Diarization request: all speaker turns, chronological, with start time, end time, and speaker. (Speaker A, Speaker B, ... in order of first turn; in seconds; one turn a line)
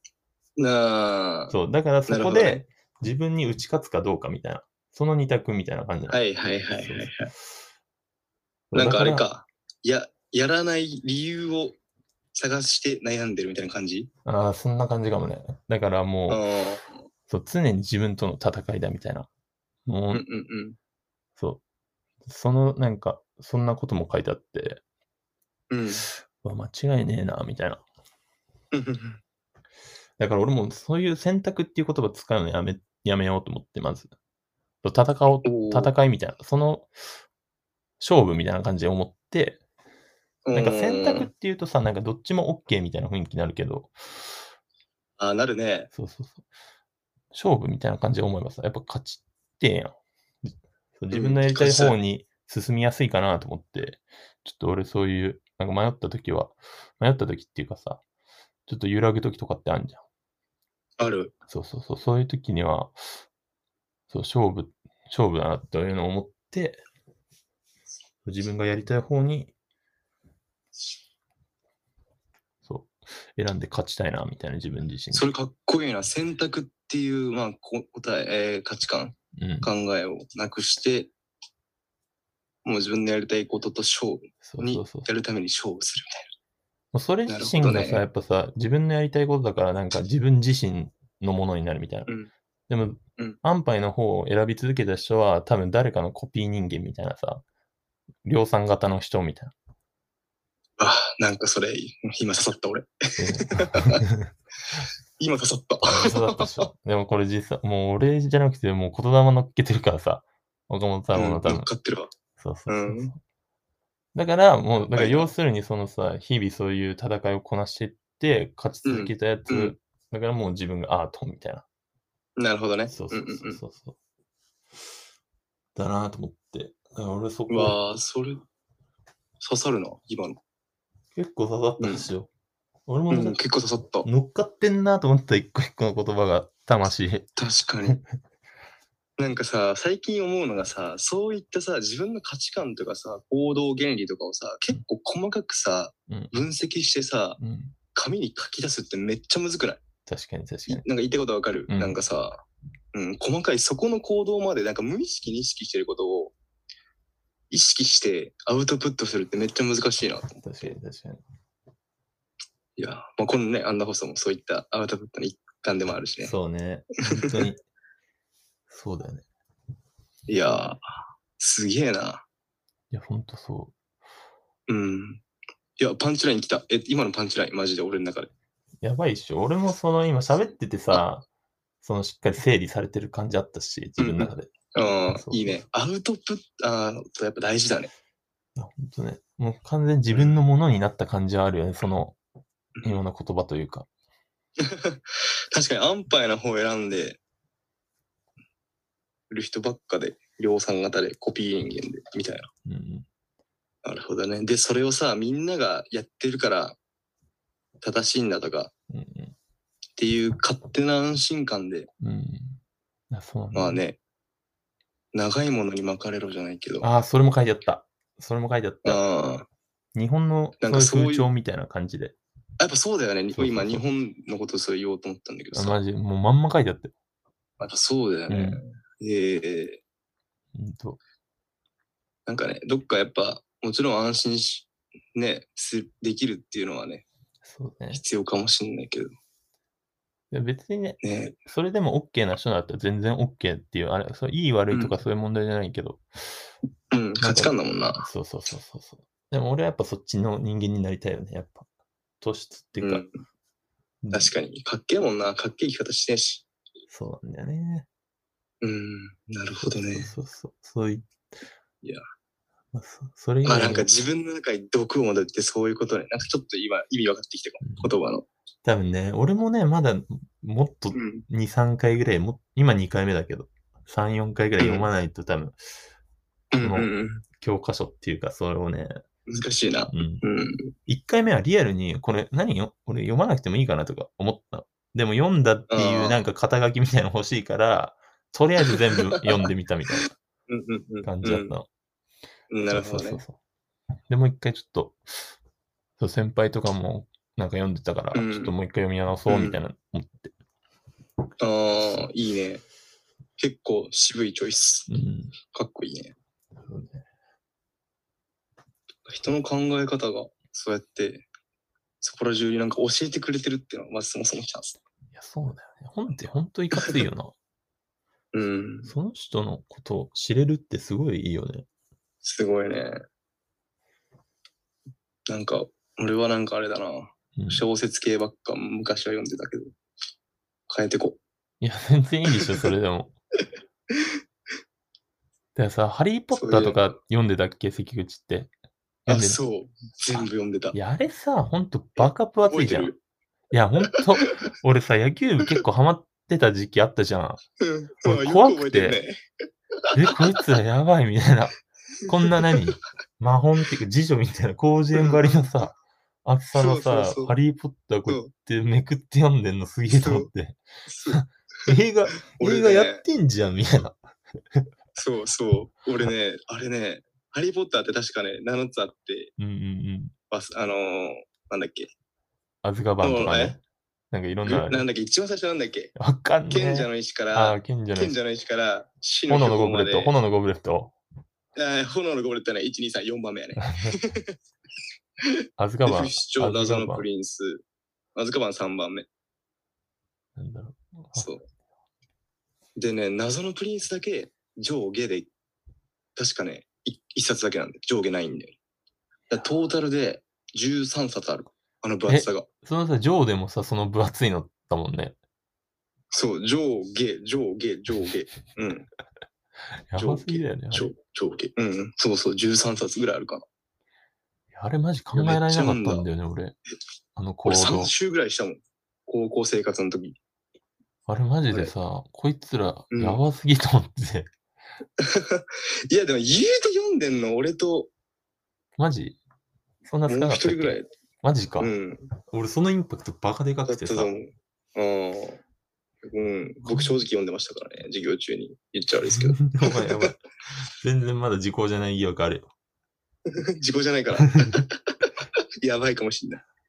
Speaker A: 0.6-1.5
Speaker B: 1.5-6.2
Speaker A: 2.1-2.6
Speaker A: 6.1-7.3
Speaker B: 6.8-7.1
Speaker B: 8.7-9.3
Speaker A: 8.7-11.8
Speaker A: 12.3-14.1
Speaker B: 14.2-16.4
Speaker A: 16.3-16.9
Speaker B: 17.3-19.3
Speaker B: 19.9-20.2
Speaker A: 20.1-20.8
Speaker B: 22.2-24.8
Speaker A: 25.7-26.1
Speaker B: 26.4-27.8
Speaker A: 28.7-29.2
Speaker B: 30.2-34.1
Speaker B: 34.8-36.9
Speaker A: 35.4-35.9
Speaker B: 38.0-39.6
Speaker A: 40.5-41.3
Speaker B: 40.5-44.4
Speaker A: 45.2-45.9
Speaker B: 45.9-46.4
Speaker B: 47.3-58.0
Speaker A: 51.1-52.0
Speaker B: 58.7-60.0
Speaker A: 61.0-61.3
Speaker B: 61.5-63.2
Speaker B: 64.1-66.8
Speaker B: 68.2-69.5
Speaker B: 72.6-75.3
Speaker A: 75.1-81.1
Speaker B: 79.4-79.7
Speaker A: 82.6-86.3
Speaker B: 84.4-85.1
Speaker B: 86.9-92.1
Speaker A: 87.3-88.0
Speaker B: 92.7-97.4
Speaker B: 98.2-99.5
Speaker A: 100.8-104.0
Speaker B: 103.2-104.3
Speaker A: 105.2-106.7
Speaker B: 105.8-111.7
Speaker A: 111.1-112.1
Speaker B: 112.4-113.2
Speaker A: 112.7-113.1
Speaker B: 114.1-121.6
Speaker A: 114.9-115.3
Speaker A: 118.8-119.8
Speaker A: 122.4-123.6
Speaker B: 122.9-124.0
Speaker B: 125.8-127.8
Speaker A: 127.5-128.4
Speaker A: 129.4-130.4
Speaker B: 131.1-132.3
Speaker A: 131.8-132.1
Speaker B: 132.9-133.4
Speaker A: 133.1-134.1
Speaker B: 134.0-137.3
Speaker A: 137.4-138.0
Speaker A: 139.2-147.4
Speaker B: 146.1-146.4
Speaker B: 147.4-147.8
Speaker A: 147.9-149.8
Speaker B: 150.1-150.8
Speaker A: 150.7-152.4
Speaker B: 151.7-152.0
Speaker A: 152.9-156.3
Speaker A: 157.5-160.4
Speaker B: 160.4-161.2
Speaker A: 162.8-166.3
Speaker B: 166.2-167.6
Speaker A: 167.1-167.4
Speaker B: 168.7-169.2
Speaker A: 170.3-170.8
Speaker A: 171.4-172.2
Speaker B: 172.9-173.7
Speaker A: 174.7-175.2
Speaker A: 175.8-178.3
Speaker B: 178.8-181.2
Speaker B: 181.8-184.5
Speaker A: 184.0-187.9
Speaker B: 185.1-185.6
Speaker B: 188.6-192.2
Speaker B: 192.8-193.9
Speaker A: 194.6-195.0
Speaker A: 195.5-197.2
Speaker A: 199.3-202.5
Speaker B: 202.6-203.1
Speaker A: 203.8-206.8
Speaker A: 207.8-208.7
Speaker B: 208.9-209.3
Speaker A: 210.0-211.9
Speaker B: 212.0-212.6
Speaker B: 213.1-213.8
Speaker A: 213.5-214.0
Speaker A: 215.1-216.9
Speaker B: 216.8-219.0
Speaker A: 218.8-219.5
Speaker B: 219.9-222.1
Speaker A: 220.6-221.3
Speaker A: 222.6-225.8
Speaker B: 223.3-223.8
Speaker B: 225.5-226.9
Speaker A: 227.6-229.8
Speaker B: 228.3-228.6
Speaker B: 230.5-231.0
Speaker A: 232.3-237.0
Speaker B: 237.4-238.0
Speaker A: 237.9-239.1
Speaker B: 240.3-246.4
Speaker A: 241.0-241.4
Speaker A: 246.9-248.1
Speaker B: 247.2-251.7
Speaker B: 252.2-253.0
Speaker A: 252.8-253.2
Speaker B: 254.0-254.3
Speaker A: 254.1-256.4
Speaker B: 256.9-257.9
Speaker A: 258.6-260.1
Speaker B: 259.6-261.1
Speaker B: 262.7-263.9
Speaker A: 263.4-268.2
Speaker B: 267.6-267.9
Speaker B: 268.6-275.6
Speaker A: 270.9-271.2
Speaker A: 274.6-274.9
Speaker A: 276.5-277.2
Speaker B: 276.6-278.9
Speaker A: 279.3-280.7
Speaker B: 279.9-280.2
Speaker B: 280.9-290.1
Speaker A: 285.7-286.2
Speaker A: 290.5-291.5
Speaker B: 291.0-291.6
Speaker A: 292.5-293.2
Speaker B: 292.7-293.4
Speaker B: 294.1-295.3
Speaker B: 296.0-300.3
Speaker A: 298.1-298.5
Speaker A: 299.3-299.6
Speaker A: 301.4-302.6
Speaker A: 303.4-304.9
Speaker B: 304.9-305.3
Speaker A: 305.5-306.1
Speaker B: 306.6-307.0
Speaker A: 309.1-311.2
Speaker A: 312.0-314.8
Speaker B: 315.1-317.3
Speaker A: 318.3-318.9
Speaker B: 318.9-321.6
Speaker A: 322.2-323.0
Speaker A: 325.3-329.7
Speaker B: 327.4-327.6
Speaker A: 330.7-331.2
Speaker B: 331.6-333.1
Speaker B: 335.5-338.5
Speaker A: 336.3-336.9
Speaker B: 339.1-339.4
Speaker A: 339.1-340.8
Speaker B: 340.1-342.9
Speaker A: 342.0-343.0
Speaker B: 343.5-347.4
Speaker A: 343.9-344.4
Speaker A: 347.6-349.1
Speaker B: 348.0-349.0
Speaker A: 349.9-350.4
Speaker B: 349.9-364.0
Speaker A: 352.2-352.6
Speaker A: 354.9-355.7
Speaker A: 356.5-357.3
Speaker A: 359.9-360.3
Speaker A: 360.9-363.0
Speaker A: 364.9-369.3
Speaker B: 369.4-370.1
Speaker A: 370.3-371.9
Speaker B: 372.6-373.6
Speaker A: 373.0-373.6
Speaker B: 374.1-374.9
Speaker A: 374.4-375.9
Speaker B: 375.9-378.2
Speaker A: 376.5-380.1
Speaker B: 379.3-380.9
Speaker A: 381.6-384.4
Speaker B: 383.6-384.0
Speaker B: 385.6-387.0
Speaker A: 385.8-387.6
Speaker A: 388.1-389.1
Speaker B: 390.4-391.3
Speaker A: 391.1-391.4
Speaker A: 392.8-395.3
Speaker A: 396.1-398.6
Speaker A: 399.3-402.5
Speaker B: 402.1-405.1
Speaker A: 406.1-408.9
Speaker B: 409.9-410.9
Speaker A: 409.9-413.4
Speaker B: 414.5-416.6
Speaker A: 415.1-416.1
Speaker B: 417.1-417.9
Speaker A: 417.4-420.2
Speaker B: 421.1-424.3
Speaker A: 422.9-423.2
Speaker A: 425.0-427.9
Speaker B: 428.8-429.2
Speaker B: 429.9-431.7
Speaker A: 430.1-430.9
Speaker A: 431.6-432.1
Speaker B: 432.3-434.1
Speaker A: 433.7-435.4
Speaker A: 436.0-440.1
Speaker B: 436.6-436.9
Speaker B: 439.1-440.2
Speaker B: 440.8-442.5
Speaker A: 443.3-446.4
Speaker B: 444.2-444.6